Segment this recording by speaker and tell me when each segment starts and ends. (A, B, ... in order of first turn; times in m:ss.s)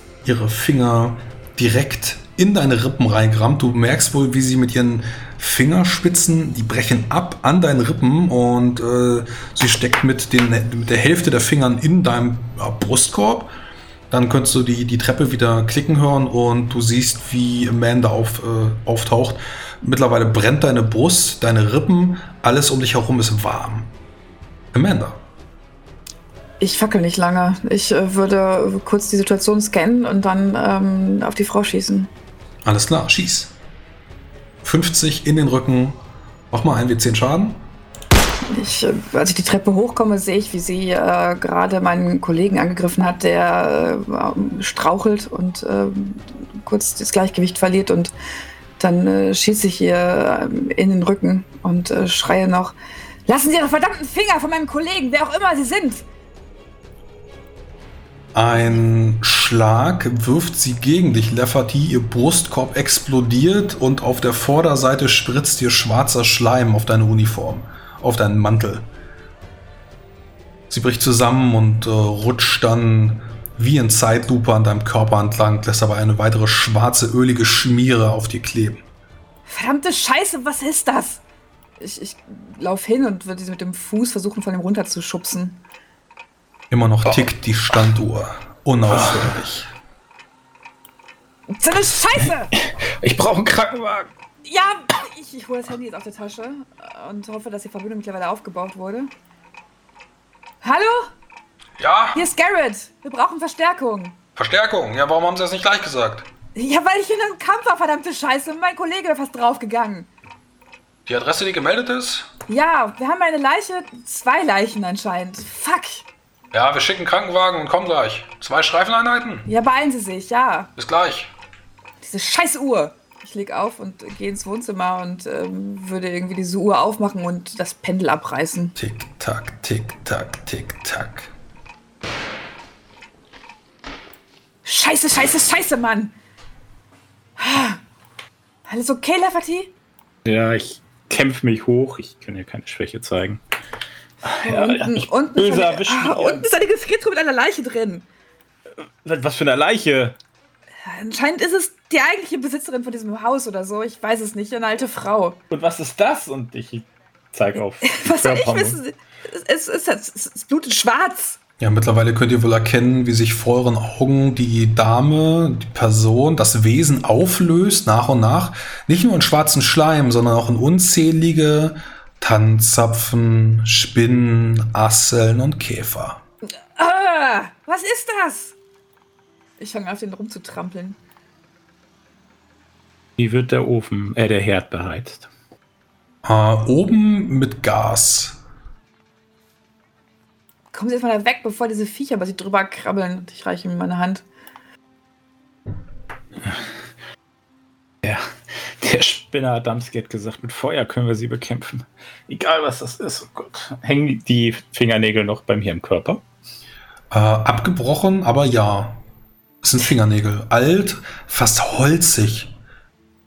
0:00.2-0:13.5 A
0:14.1-0:23.9 A
0:24.7-0:25.2 A
0:26.6-0:32.1 B
0:32.6-0:33.5 A
0:34.6-0:36.0 A
0:36.5-0:37.6 A
0:38.5-0:48.1 B
0:48.8-0:52.7 B
0:53.3-0:56.0 B
0:58.3-1:08.9 A
1:10.7-1:18.8 A
1:19.5-1:21.2 B
1:21.8-1:25.6 B
1:26.7-1:29.7 A
1:28.9-1:29.3 C
1:31.5-1:32.5 B
1:32.5-1:34.1 C
1:34.4-1:39.1 B
1:40.6-1:41.1 B
1:41.8-1:42.2 A
1:42.1-1:44.2 B
1:44.4-1:46.3 A
1:46.5-1:50.1 B
1:51.0-1:52.3 A
1:52.5-1:56.1 B
1:56.5-1:59.5 A
1:59.5-2:00.7 B
2:00.8-2:01.3 A
2:02.0-2:08.7 B
2:08.8-2:11.3 A
2:14.6-2:16.1 B
2:17.4-2:17.8 B
2:18.7-2:19.7 B
2:20.2-2:23.4 C
2:24.2-2:26.5 C
2:24.4-2:28.0 B
2:28.8-2:30.2 C
2:30.8-2:35.4 B
2:35.5-2:38.8 C
2:37.8-2:41.4 B
2:41.6-2:56.2 A
2:56.8-2:58.6 B
2:59.6-3:01.0 B
3:03.2-3:05.3 C
3:06.2-3:08.4 A
3:10.7-3:14.2 B
3:18.0-3:26.2 C
3:27.1-3:29.0 A
3:29.6-3:32.5 A